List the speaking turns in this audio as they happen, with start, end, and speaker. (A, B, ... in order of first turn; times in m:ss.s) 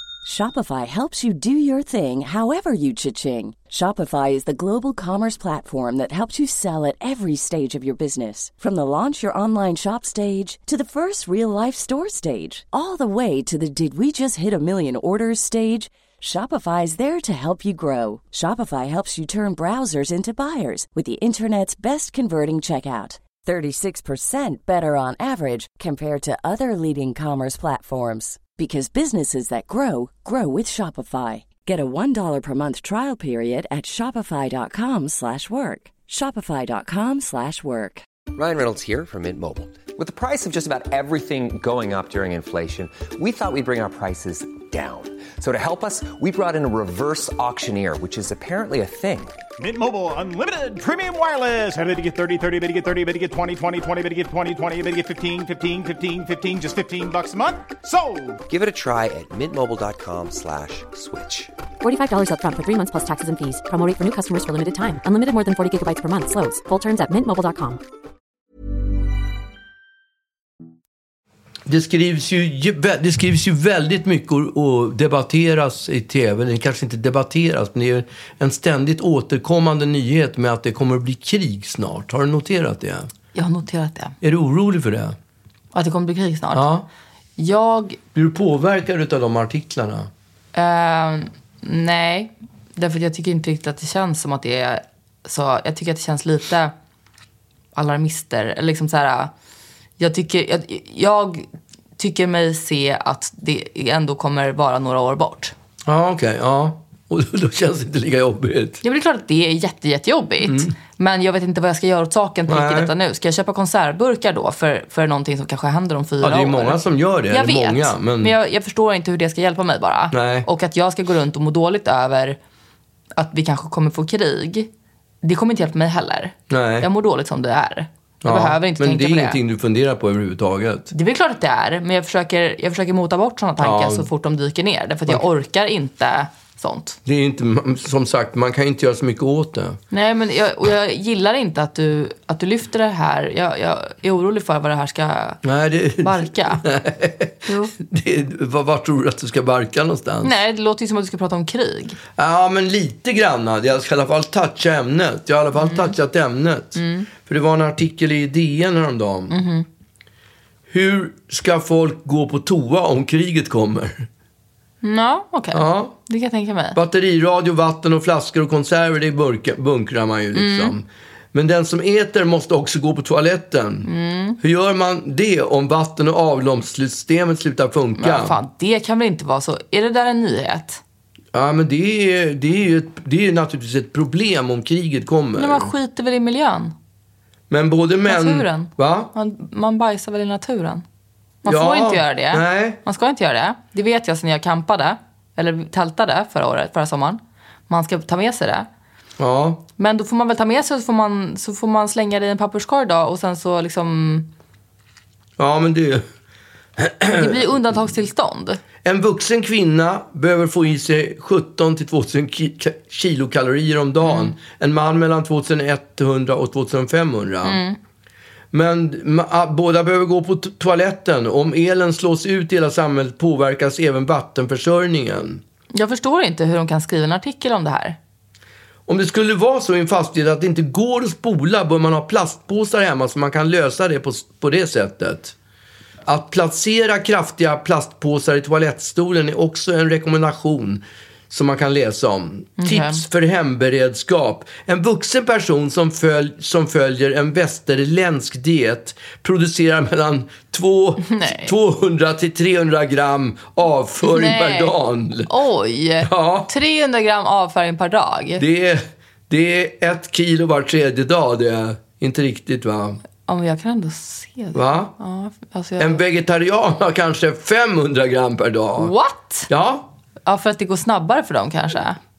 0:00.2-0:38.0 A
0:38.3-0:49.4 B
0:49.6-0:58.4 C
0:58.5-1:01.5 B
1:01.8-1:07.8 D
1:11.7-1:23.1 E
1:23.3-1:24.2 F
1:24.2-1:25.2 E
1:25.7-1:26.6 F
1:26.5-1:26.8 E
1:27.4-1:28.0 F
1:28.1-1:30.1 E
1:30.5-1:36.7 F
1:37.7-1:39.3 F
1:40.0-1:45.5 F
1:45.8-1:48.8 E
1:48.8-2:02.4 F
1:50.4-1:50.7 E
1:52.5-1:52.9 E
1:56.2-1:58.3 E
2:00.1-2:00.5 E
2:03.2-2:04.7 F
2:05.2-2:09.4 F
2:06.5-2:06.9 E
2:08.2-2:10.9 E
2:10.9-2:17.0 F
2:13.6-2:14.1 E
2:17.0-2:19.8 E
2:19.9-2:25.4 F
2:25.4-2:30.3 E
2:26.0-2:26.6 F
2:27.5-2:27.7 F
2:30.2-2:32.0 F
2:32.2-2:39.4 E
2:35.6-2:35.9 F
2:36.7-2:37.1 F
2:39.3-2:39.6 F
2:40.7-2:44.1 E
2:44.8-2:46.8 F
2:45.5-2:45.9 E
2:46.7-2:53.9 E
2:50.3-2:50.7 F
2:53.8-2:54.4 F
2:54.4-2:58.4 E
2:58.0-3:00.8 F
3:01.3-3:05.7 E
3:05.4-3:06.7 F
3:07.5-3:09.1 E
3:08.0-3:10.8 F
3:11.4-3:18.7 F
3:11.5-3:12.8 E
3:19.2-3:19.6 E
3:19.8-3:24.3 F
3:25.4-3:26.0 E
3:26.8-3:27.7 E
3:27.2-3:28.6 F
3:28.8-3:37.6 E
3:34.0-3:34.3 F
3:37.4-3:37.8 F
3:38.5-3:45.4 E
3:45.7-3:48.0 F
3:48.9-3:55.3 E
3:56.0-4:15.3 E
4:02.6-4:03.0 F
4:11.0-4:11.5 F
4:14.0-4:14.7 F
4:15.3-4:18.4 F
4:16.0-4:16.5 E
4:18.4-4:23.0 E
4:23.2-4:26.0 F
4:24.5-4:24.9 E
4:25.8-4:28.9 E
4:28.8-4:29.5 F
4:29.5-4:29.9 E
4:30.2-4:32.0 F